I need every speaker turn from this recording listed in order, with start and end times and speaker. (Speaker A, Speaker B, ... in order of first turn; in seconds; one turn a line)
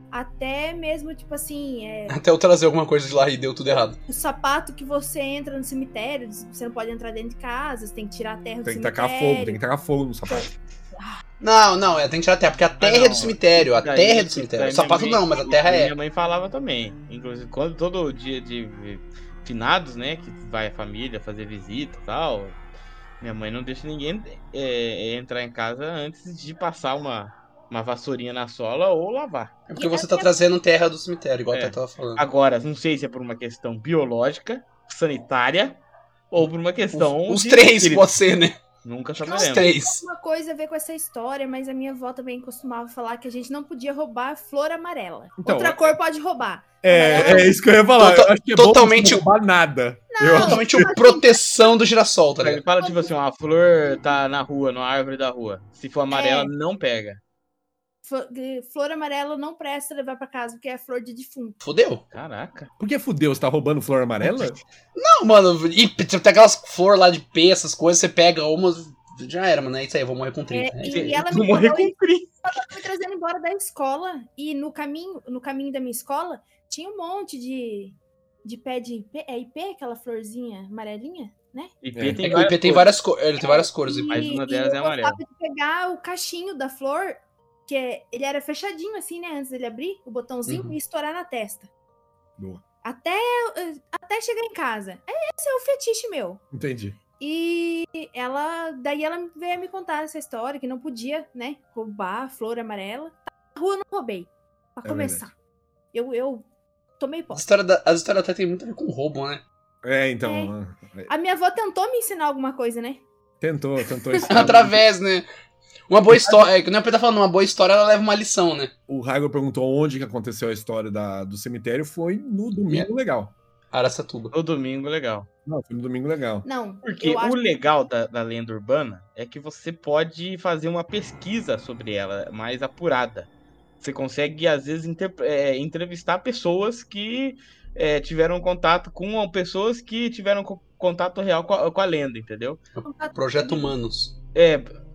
Speaker A: 0.1-2.2
Speaker B: 2.1-4.0
Speaker A: 4.1-9.6
Speaker C: 8.7-10.5
Speaker A: 10.3-11.2
Speaker B: 11.4-15.9
Speaker D: 12.8-22.6
Speaker A: 15.3-15.8
Speaker D: 23.2-29.5
Speaker B: 29.7-32.2
Speaker A: 29.8-30.3
Speaker D: 31.5-35.8
Speaker D: 36.3-38.1
Speaker B: 36.4-38.6
Speaker D: 38.8-39.7
Speaker A: 39.2-47.6
Speaker B: 39.3-40.0
Speaker C: 45.4-45.9
Speaker C: 46.8-50.9
Speaker B: 47.1-49.3
Speaker A: 50.1-51.7
Speaker B: 50.3-52.6
Speaker D: 52.4-57.2
Speaker A: 52.8-53.1
Speaker A: 56.1-56.5
Speaker A: 58.0-61.6
Speaker B: 61.6-62.0
Speaker D: 62.1-62.7
Speaker C: 62.8-64.6
Speaker B: 65.0-71.5
Speaker A: 70.5-81.7
Speaker D: 71.0-72.3
Speaker D: 81.8-83.0
Speaker C: 82.0-82.3
Speaker B: 82.2-84.4
Speaker A: 83.4-91.7
Speaker D: 84.1-85.2
Speaker B: 90.5-90.8
Speaker A: 92.8-96.4
Speaker C: 96.5-97.0
Speaker A: 97.2-105.3
Speaker C: 104.8-105.2
Speaker A: 105.9-106.5
Speaker A: 107.0-107.4
Speaker B: 107.3-109.4
Speaker C: 109.8-111.1
Speaker A: 110.2-110.5
Speaker A: 111.1-113.0
Speaker C: 113.4-114.8
Speaker B: 114.3-115.2
Speaker B: 115.9-118.7
Speaker C: 116.1-116.5
Speaker C: 118.9-123.3
Speaker B: 123.7-124.3
Speaker D: 124.3-125.3
Speaker C: 125.5-126.5
Speaker A: 126.4-127.4
Speaker D: 126.8-133.3
Speaker D: 133.8-142.6
Speaker B: 142.8-144.1
Speaker A: 142.8-143.7
Speaker D: 144.3-144.7